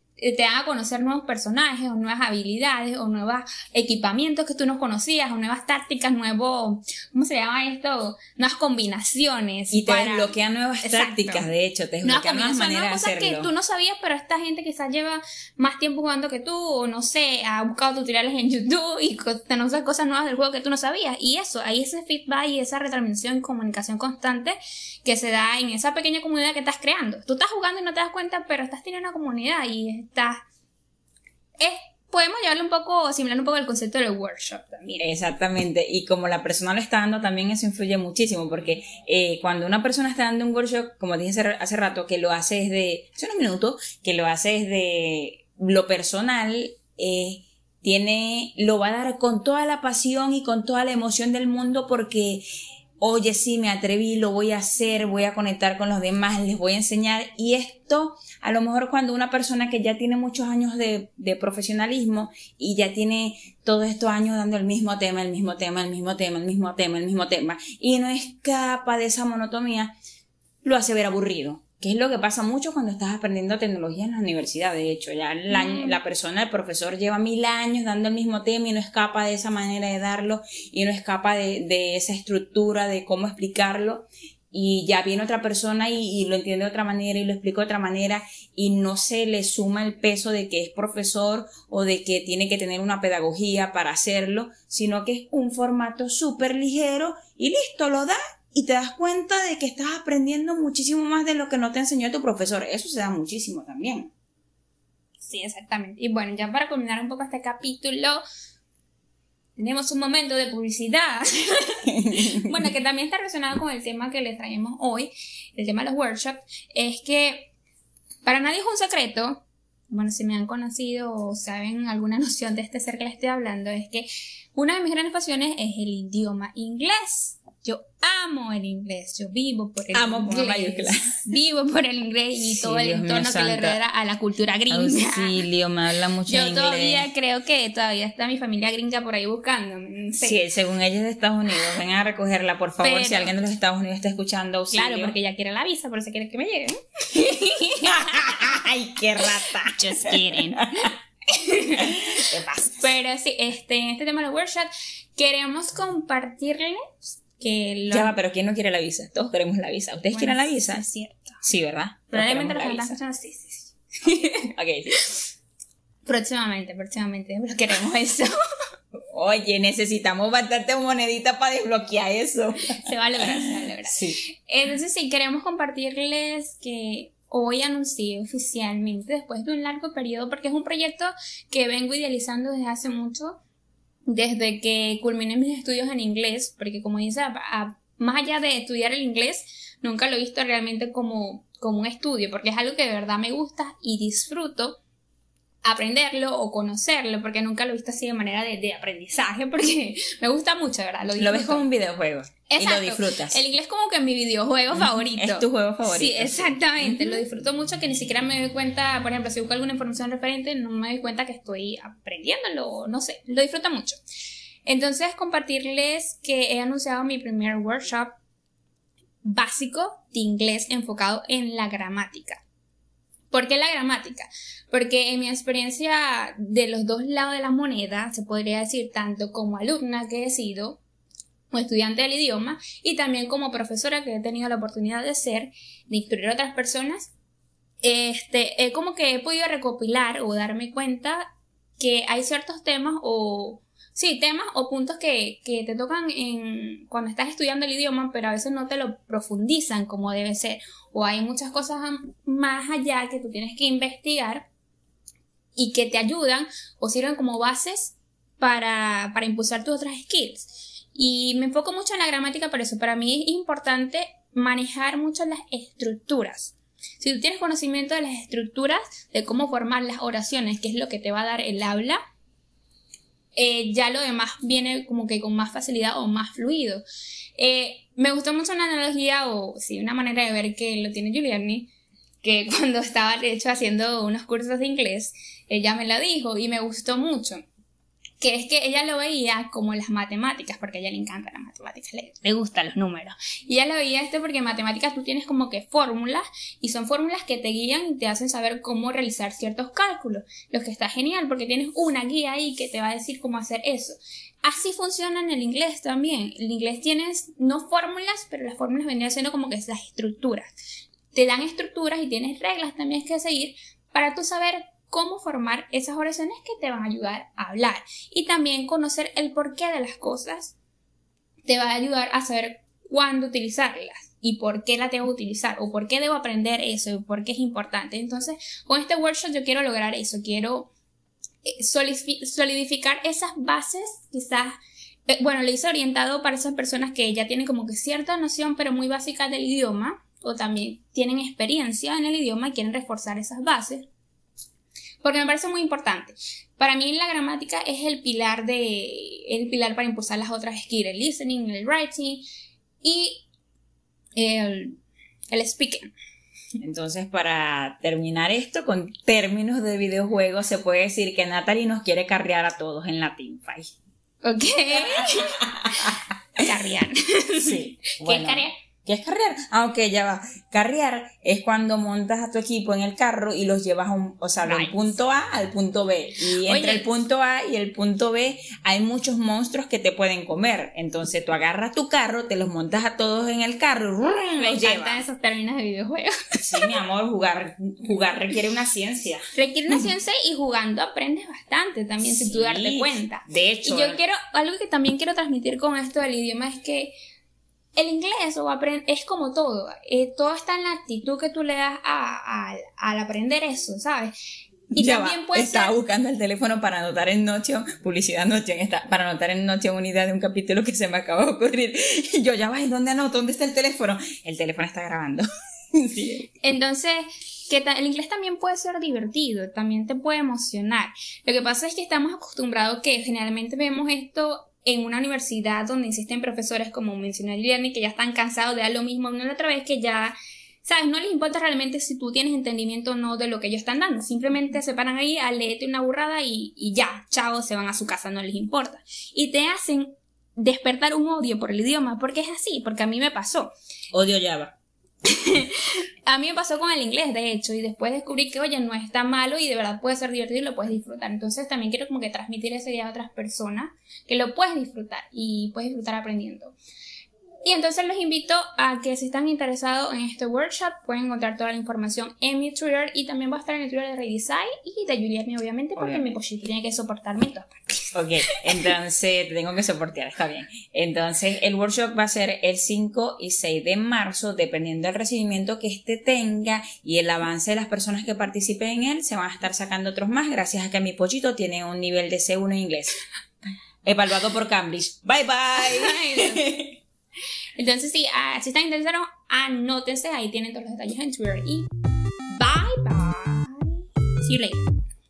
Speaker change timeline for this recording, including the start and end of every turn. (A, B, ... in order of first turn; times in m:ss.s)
0:00.2-0:11.5 A
0:09.7-0:13.5 B
0:12.0-0:30.4 A
0:31.6-0:35.1 A
0:35.0-0:52.4 B
0:53.0-1:09.9 B
1:10.6-1:44.1 B
1:15.5-1:16.0 A
1:45.2-1:48.2 A
1:49.6-1:57.5 A
1:51.9-1:52.5 B
1:58.2-2:15.4 A
2:09.9-2:11.1 B
2:12.6-2:13.8 B
2:14.7-2:17.1 B
2:16.3-2:20.4 A
2:20.2-2:25.1 B
2:22.8-2:23.3 A
2:24.7-2:28.5 A
2:27.8-2:30.9 B
2:29.2-2:38.1 A
2:31.8-2:32.9 B
2:37.9-2:40.8 B
2:40.1-2:41.4 A
2:41.4-2:43.0 B
2:42.1-2:45.2 A
2:44.4-2:45.0 B
2:46.0-2:48.3 A
2:49.0-2:54.2 B
2:52.8-3:03.4 A
3:04.1-3:14.8 A
3:15.6-3:21.6 A
3:21.2-3:23.4 B
3:22.5-3:34.0 A
3:24.7-3:27.2 B
3:34.6-3:38.2 A
3:39.2-3:42.4 A
3:43.3-3:50.8 A
3:51.5-3:57.1 A
3:57.8-4:01.2 A
4:01.8-4:14.5 A
4:15.6-4:32.0 A
4:33.4-4:36.8 A
4:37.4-4:41.7 A
4:42.2-4:47.4 A
4:48.2-5:10.5 A
5:11.1-5:20.5 A
5:21.4-5:30.7 A
5:31.4-5:34.5 A
5:35.1-5:43.9 A
5:45.0-5:52.2 A
5:52.8-5:53.2 A
5:54.2-5:54.8 A
5:55.3-5:55.9 A
5:56.6-6:03.7 B
6:04.2-6:08.5 A
6:04.7-6:06.0 B
6:07.4-6:25.0 B
6:14.4-6:14.8 A
6:16.3-6:16.9 A
6:24.4-6:26.8 A
6:26.4-6:29.8 B
6:29.3-6:36.9 A
6:32.0-6:34.0 B
6:37.8-6:44.1 A
6:44.7-6:45.7 A
6:44.7-6:56.2 B
6:56.4-7:23.5 A
7:23.9-7:24.5 B
7:25.0-7:36.6 A
7:37.4-7:48.4 A
7:45.8-7:46.1 B
7:47.9-8:03.0 B
8:03.8-8:06.8 B
8:05.6-8:06.4 A
8:07.6-8:11.7 A
8:12.3-8:14.7 A